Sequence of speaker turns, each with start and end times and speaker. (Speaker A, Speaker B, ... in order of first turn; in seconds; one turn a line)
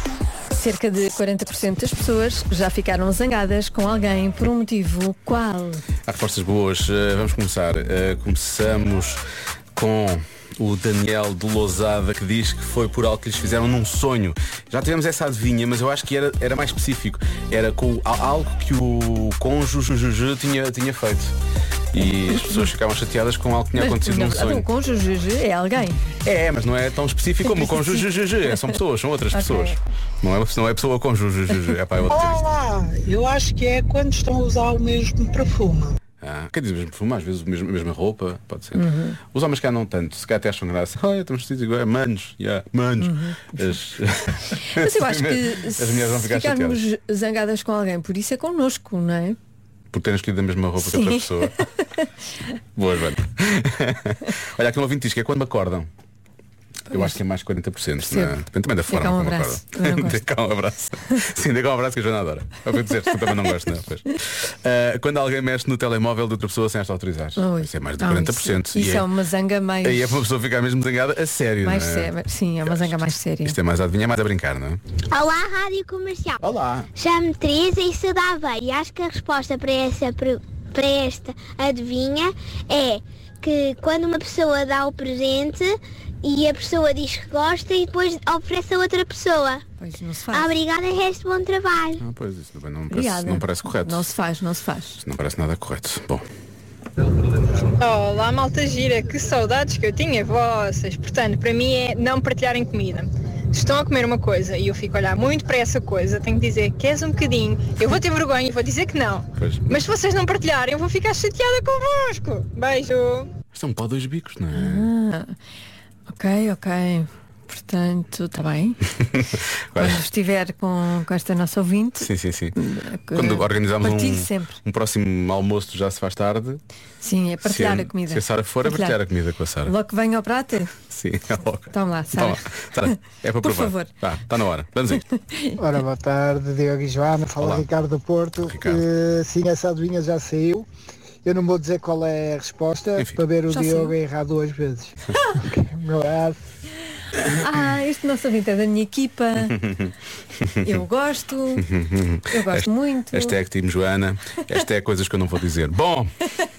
Speaker A: 0.5-5.8
Speaker B: 6.1-9.2
Speaker B: 9.8-21.3
Speaker B: 21.9-24.7
Speaker A: 23.8-26.1
Speaker B: 26.2-32.5
Speaker A: 27.4-28.7
Speaker A: 29.3-29.8
Speaker C: 32.1-36.0
Speaker B: 36.2-46.8
Speaker A: 38.7-39.2
Speaker A: 43.0-43.5
Speaker A: 44.6-49.4
Speaker B: 49.9-51.6
Speaker A: 50.8-52.1
Speaker B: 52.8-55.9
Speaker B: 56.9-69.1
Speaker A: 58.0-58.4
Speaker A: 58.9-60.2
Speaker A: 67.4-70.2
Speaker B: 69.8-72.1
Speaker A: 71.6-73.6
Speaker B: 72.6-74.8
Speaker D: 75.1-76.4
Speaker B: 76.4-76.9
Speaker D: 76.9-89.6
Speaker A: 89.8-90.5
Speaker D: 90.3-92.0
Speaker B: 92.0-94.1
Speaker A: 92.9-95.0
Speaker B: 95.0-96.2
Speaker E: 97.7-113.3
Speaker B: 109.4-109.8
Speaker B: 113.5-114.9
Speaker A: 114.5-115.3
Speaker A: 116.1-118.8
Speaker B: 119.2-120.0
Speaker A: 119.8-124.6
Speaker B: 122.0-122.5
Speaker B: 123.1-126.6
Speaker A: 127.0-129.0
Speaker B: 127.4-129.7
Speaker A: 129.7-130.7
Speaker B: 130.9-135.0
Speaker A: 131.7-133.9
Speaker A: 135.1-135.6
Speaker F: 135.6-140.7
Speaker B: 137.4-137.7
Speaker B: 138.4-138.8
Speaker F: 141.2-146.4
Speaker A: 143.5-143.9
Speaker A: 147.3-149.6
Speaker B: 150.4-150.7
Speaker A: 150.6-151.7
Speaker B: 151.7-156.1
Speaker A: 152.3-153.4